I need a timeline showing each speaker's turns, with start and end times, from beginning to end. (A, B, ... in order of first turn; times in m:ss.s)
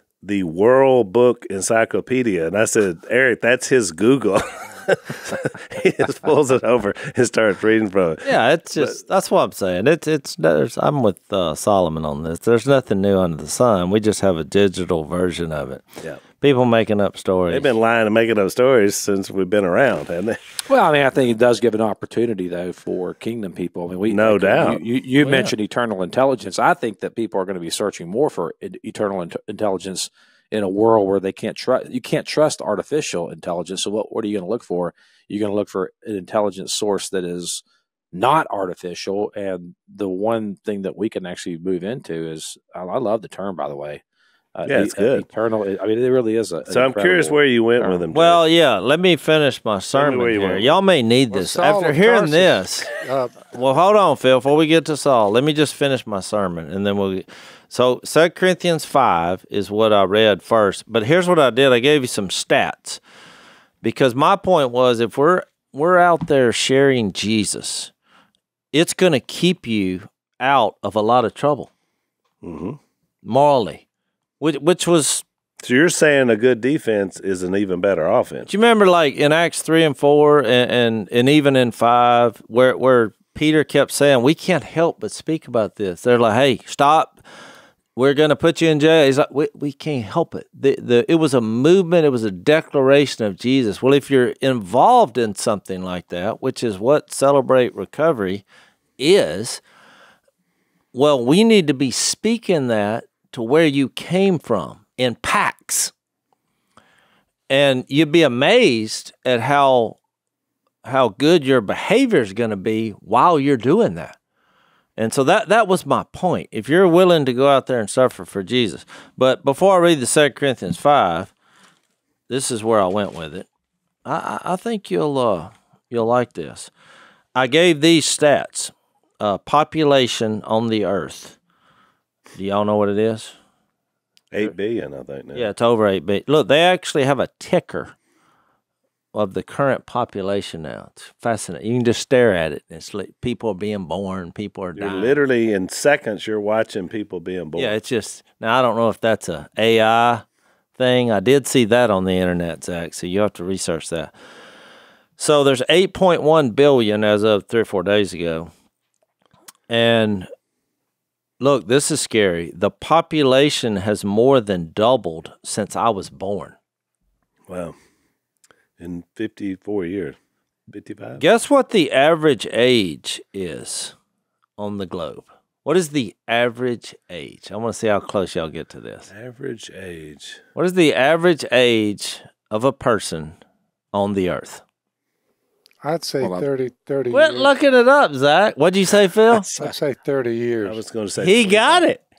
0:00.2-0:09.0 A
0:08.2-0:15.8 B
0:16.4-0:17.7 B
0:17.5-0:20.4 A
0:20.7-0:44.0 C
0:24.1-0:24.8 A
0:25.2-0:25.5 B
0:44.6-0:48.0 C
0:44.7-0:45.2 A
0:46.7-0:48.4 A
0:48.1-0:52.9 B
0:49.9-0:50.7 A
0:51.3-0:53.4 D
0:53.4-1:03.0 B
1:03.8-1:07.9 B
1:08.7-1:11.7 B
1:12.4-1:12.8 A
1:13.2-1:13.8 B
1:14.4-1:15.2 B
1:15.6-1:18.5 A
1:18.5-1:27.2 B
1:28.0-1:38.4 B
1:39.0-1:39.6 B
1:40.9-1:45.9 B
1:47.5-1:50.0 B
1:50.8-1:54.2 B
1:55.0-2:01.3 B
2:02.3-2:03.5 B
2:04.0-2:06.7 B
2:07.4-2:11.4 B
2:12.4-2:13.4 B
2:14.3-2:15.5 A
2:15.3-2:18.0 B
2:19.1-2:25.2 B
2:24.8-2:27.7 A
2:27.6-2:30.2 B
2:30.8-2:34.1 B
2:35.2-2:38.5 B
2:39.7-2:40.3 B
2:41.4-2:46.6 B
2:47.5-2:47.8 A
2:48.8-2:50.2 A
2:50.7-2:51.2 A
2:51.2-2:54.0 B
2:54.6-2:59.1 B
2:59.1-3:00.4 A
3:00.6-3:03.4 B
3:03.9-3:04.6 B
3:05.8-3:07.5 D
3:06.2-3:06.5 C
3:07.1-3:09.5 B
3:09.5-3:10.8 D
3:10.6-3:11.9 A
3:11.2-3:12.0 B